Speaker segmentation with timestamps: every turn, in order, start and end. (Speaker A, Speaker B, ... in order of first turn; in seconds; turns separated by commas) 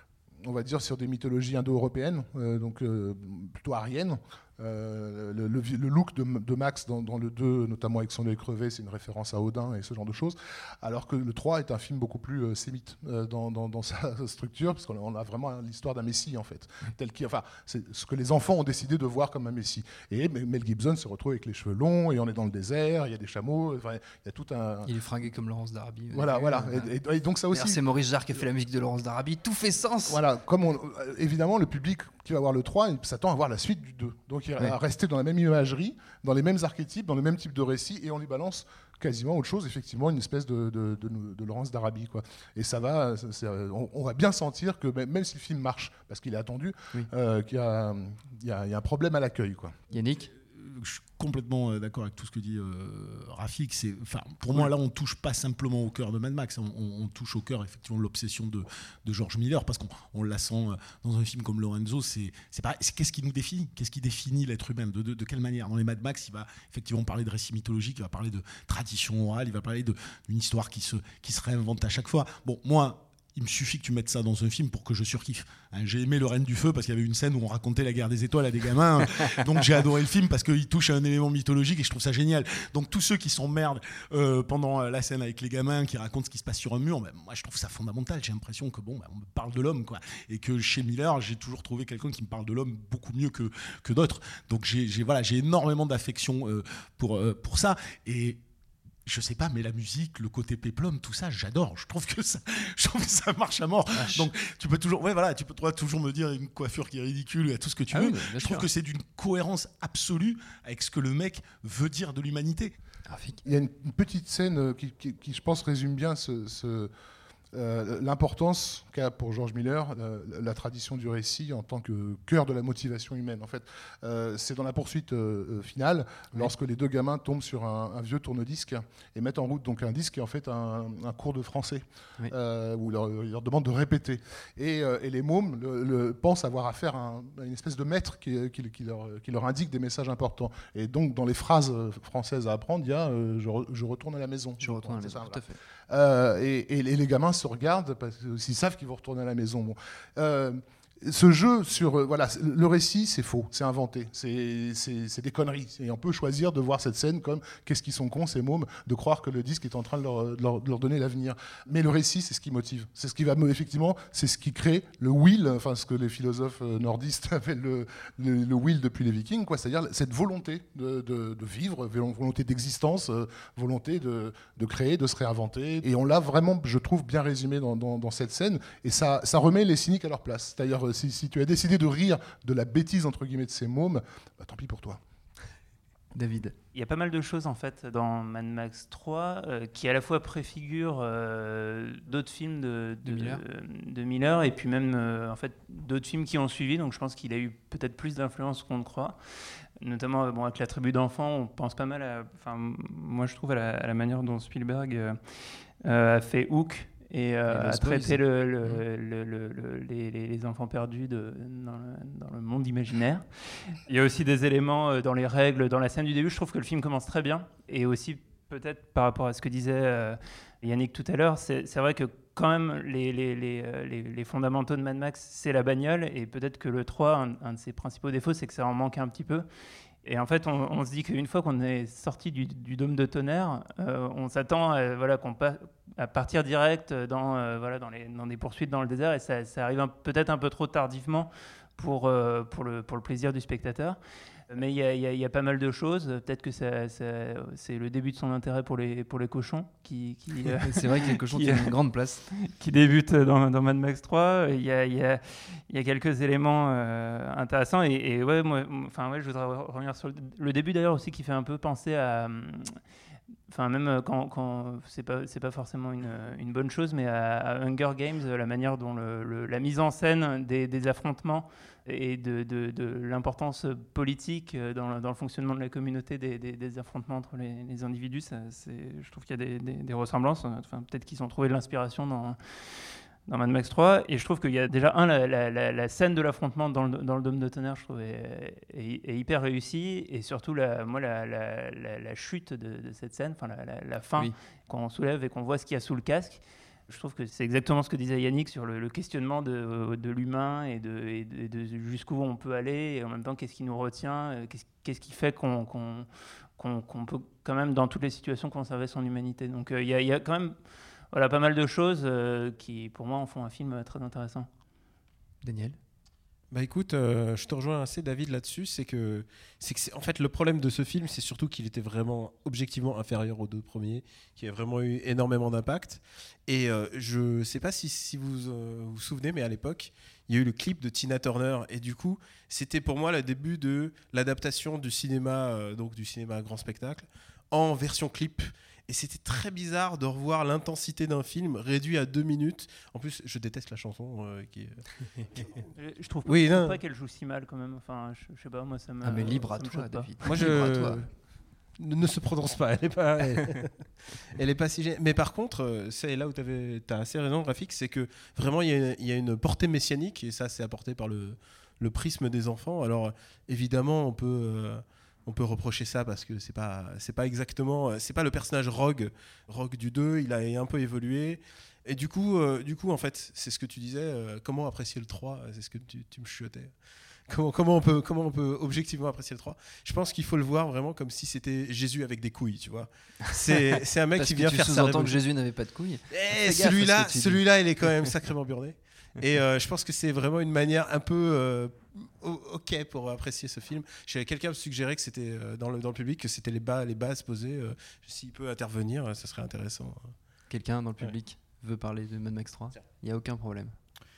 Speaker A: 0.4-24.9, Speaker B: 24.8-26.9, Speaker A: 26.1-27.8, Speaker B: 27.5-30.2, Speaker A: 30.1-49.8, Speaker B: 49.9-50.3, Speaker C: 50.3-98.4, Speaker C: 99.0-112.7, Speaker B: 103.9-104.3, Speaker B: 107.9-108.7, Speaker B: 113.1-113.4, Speaker A: 113.4-116.9, Speaker A: 117.5-185.0, Speaker B: 144.6-145.6, Speaker B: 186.1-186.5, Speaker D: 186.7-199.2, Speaker B: 193.0-193.4, Speaker D: 199.8-213.3, Speaker B: 207.5-208.8, Speaker D: 213.9-229.5, Speaker D: 230.0-251.7, Speaker B: 250.5-252.2, Speaker D: 252.5-262.8, Speaker D: 263.5-282.4, Speaker D: 283.2-310.6, Speaker D: 311.1-314.5, Speaker B: 315.4-315.8, Speaker E: 316.5-345.6, Speaker D: 345.7-350.1, Speaker E: 346.2-346.8, Speaker B: 349.0-351.0, Speaker E: 350.2-351.1, Speaker E: 351.8-376.8, Speaker E: 377.3-385.2, Speaker B: 384.1-387.9, Speaker E: 386.1-400.1, Speaker B: 400.5-403.8